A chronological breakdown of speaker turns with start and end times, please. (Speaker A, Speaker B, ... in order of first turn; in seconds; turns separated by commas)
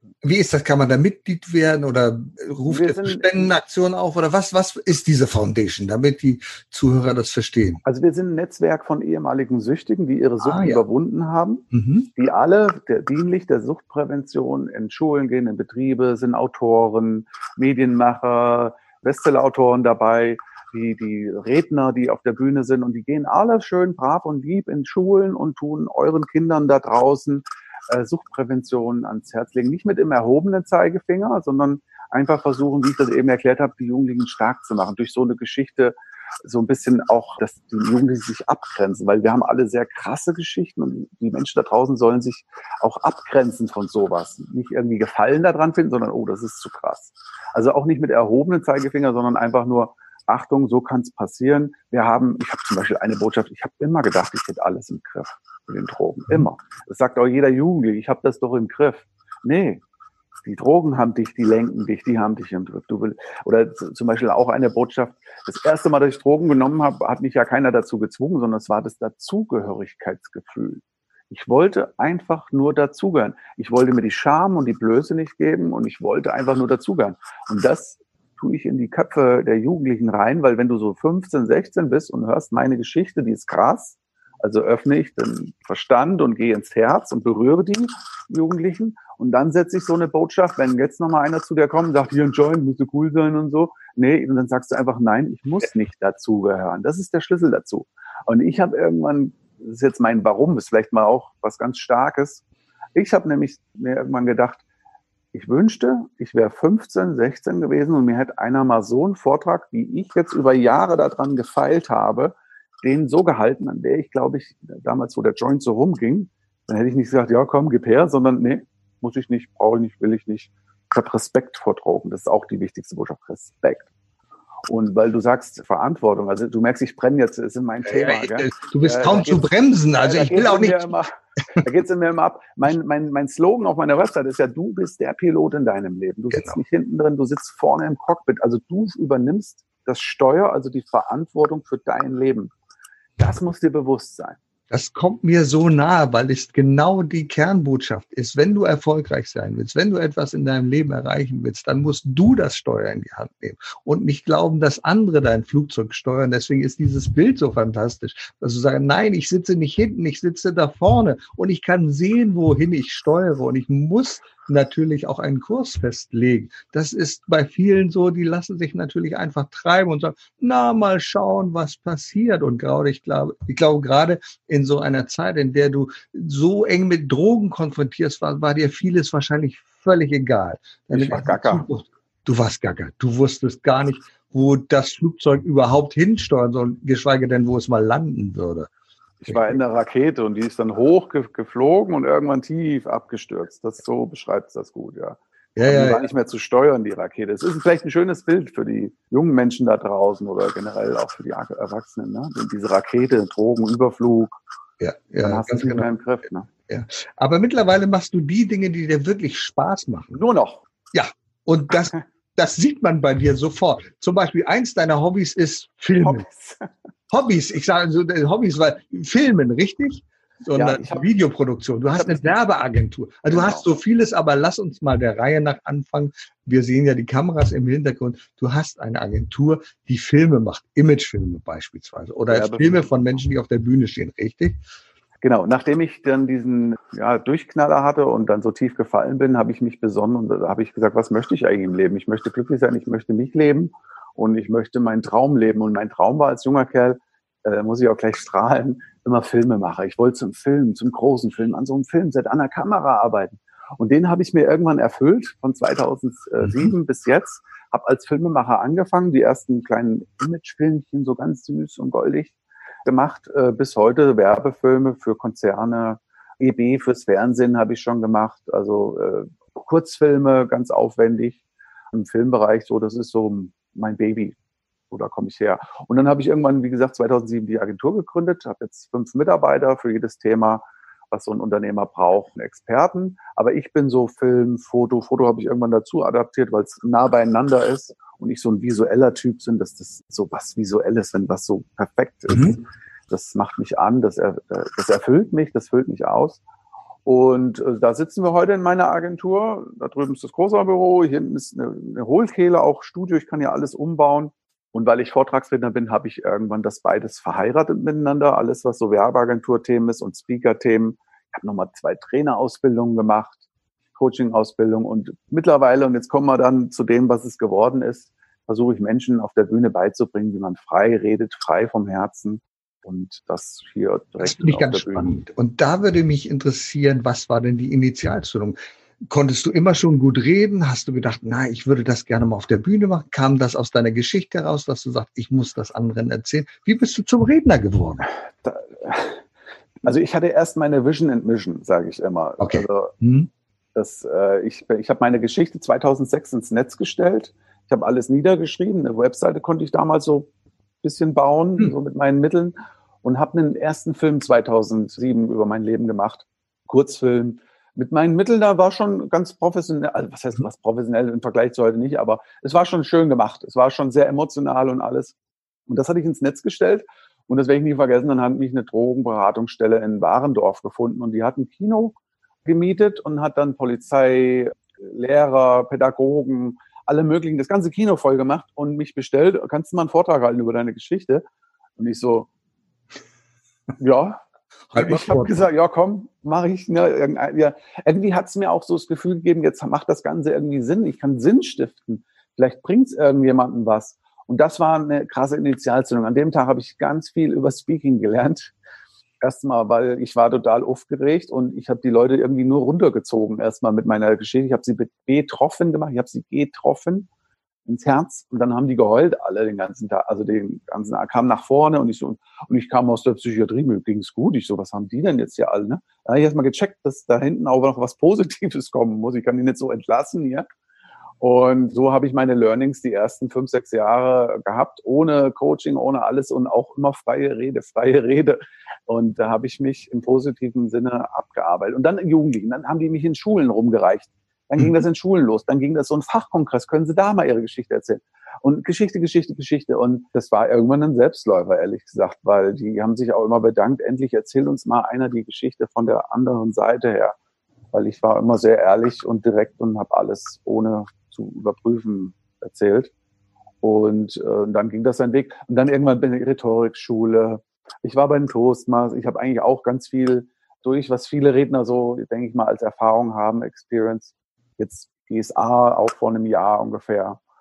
Speaker A: 0.2-7.8, Speaker B: 2.7-3.5, Speaker B: 7.8-11.6, Speaker A: 10.4-10.8, Speaker A: 11.7-12.1, Speaker B: 12.2-59.8, Speaker B: 60.5-102.4, Speaker B: 103.0-104.6, Speaker B: 105.3-123.9, Speaker B: 124.7-142.5, Speaker A: 127.9-130.9, Speaker A: 136.3-136.6, Speaker B: 143.2-144.4, Speaker A: 144.7-188.7, Speaker B: 180.9-181.7, Speaker B: 189.2-204.4, Speaker A: 189.3-189.6, Speaker A: 195.6-196.0, Speaker A: 204.8-205.9, Speaker B: 205.2-206.5, Speaker A: 206.7-210.2, Speaker B: 210.1-210.7, Speaker A: 210.9-216.3, Speaker B: 216.0-216.7, Speaker A: 217.1-234.6, Speaker B: 220.5-221.1, Speaker B: 222.0-222.2, Speaker B: 223.3-223.7, Speaker B: 232.3-232.9, Speaker B: 235.2-262.4, Speaker A: 256.4-256.7, Speaker B: 262.9-271.4, Speaker B: 271.9-274.4, Speaker B: 274.9-296.4, Speaker A: 292.3-292.6, Speaker B: 297.1-313.4, Speaker B: 314.0-325.2, Speaker A: 324.2-338.1, Speaker B: 338.4-339.2, Speaker B: 339.8-342.9, Speaker A: 342.4-343.3, Speaker B: 343.8-350.3, Speaker B: 350.8-365.1, Speaker B: 365.7-381.2, Speaker B: 381.8-382.3, Speaker B: 383.8-384.2, Speaker A: 384.7-385.5, Speaker B: 384.8-398.5, Speaker B: 399.2-407.1, Speaker B: 407.7-420.5, Speaker B: 421.2-447.2, Speaker B: 447.7-452.9, Speaker B: 453.6-467.2